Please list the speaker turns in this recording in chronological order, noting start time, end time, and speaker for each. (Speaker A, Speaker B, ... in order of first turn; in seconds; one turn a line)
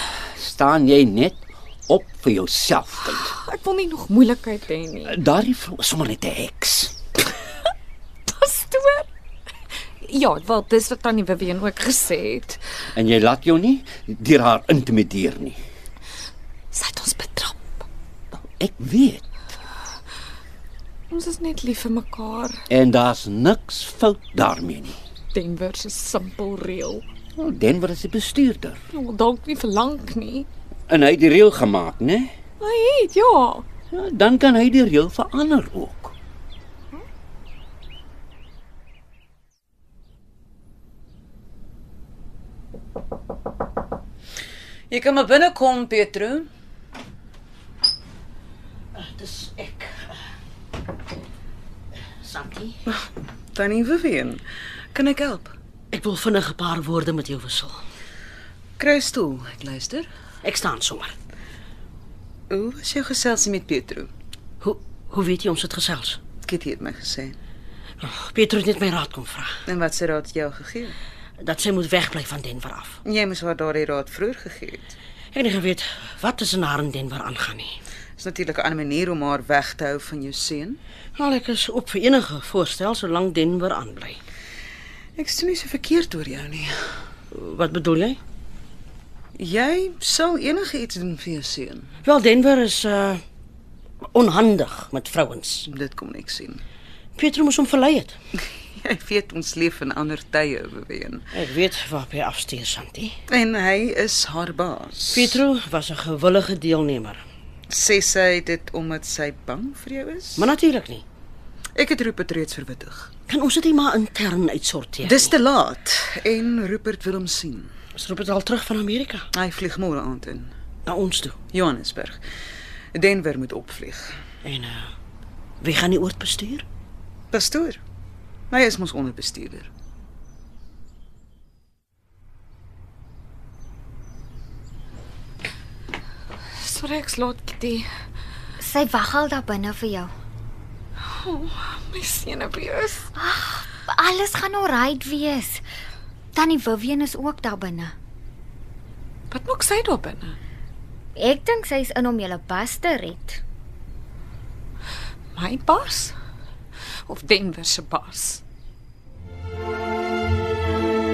Speaker A: 0.4-3.3
Speaker B: 3.1-5.2
Speaker A: 5.0-6.9
Speaker B: 8.3-9.1
Speaker B: 10.0-12.6
Speaker A: 12.9-15.6
Speaker B: 16.7-17.7
Speaker A: 18.6-19.2
Speaker B: 21.1-22.6
Speaker A: 22.7-24.9
Speaker B: 25.3-27.0
Speaker A: 27.4-28.8
Speaker B: 28.9-30.5
Speaker A: 30.9-32.3
Speaker B: 32.6-33.6
Speaker A: 33.9-36.1
Speaker C: 44.9-46.5
Speaker D: 48.9-50.1
Speaker D: 52.2-52.8
Speaker C: 52.9-54.4
Speaker C: 54.9-55.5
Speaker D: 55.9-57.8
Speaker C: 58.8-60.1
Speaker D: 60.4-61.1
Speaker C: 62.5-64.1
Speaker D: 64.6-66.2
Speaker C: 66.4-67.4
Speaker D: 68.0-69.6
Speaker C: 69.7-71.0
Speaker D: 71.4-73.0
Speaker C: 73.0-75.0
Speaker D: 75.3-77.8
Speaker C: 78.2-80.8
Speaker D: 81.2-84.2
Speaker C: 85.2-86.7
Speaker D: 87.3-88.2
Speaker C: 89.4-91.9
Speaker D: 92.0-93.2
Speaker D: 94.0-95.7
Speaker C: 95.7-96.6
Speaker D: 97.2-98.2
Speaker C: 98.8-101.2
Speaker D: 101.3-103.1
Speaker C: 103.3-105.4
Speaker D: 105.1-107.2
Speaker C: 107.7-110.5
Speaker D: 110.4-111.0
Speaker C: 111.8-113.1
Speaker D: 113.3-115.3
Speaker C: 115.0-117.7
Speaker D: 118.0-119.3
Speaker C: 119.3-120.5
Speaker D: 120.8-121.4
Speaker C: 121.5-122.2
Speaker C: 122.9-124.1
Speaker D: 124.4-124.9
Speaker D: 125.6-126.6
Speaker C: 127.3-127.8
Speaker C: 128.5-129.7
Speaker B: 136.6-137.8
Speaker E: 138.6-140.1
Speaker B: 141.2-143.1
Speaker E: 143.1-145.6
Speaker E: 146.3-147.9
Speaker B: 149.3-150.4
Speaker E: 151.2-153.4
Speaker B: 155.3-156.1
Speaker B: 157.1-158.4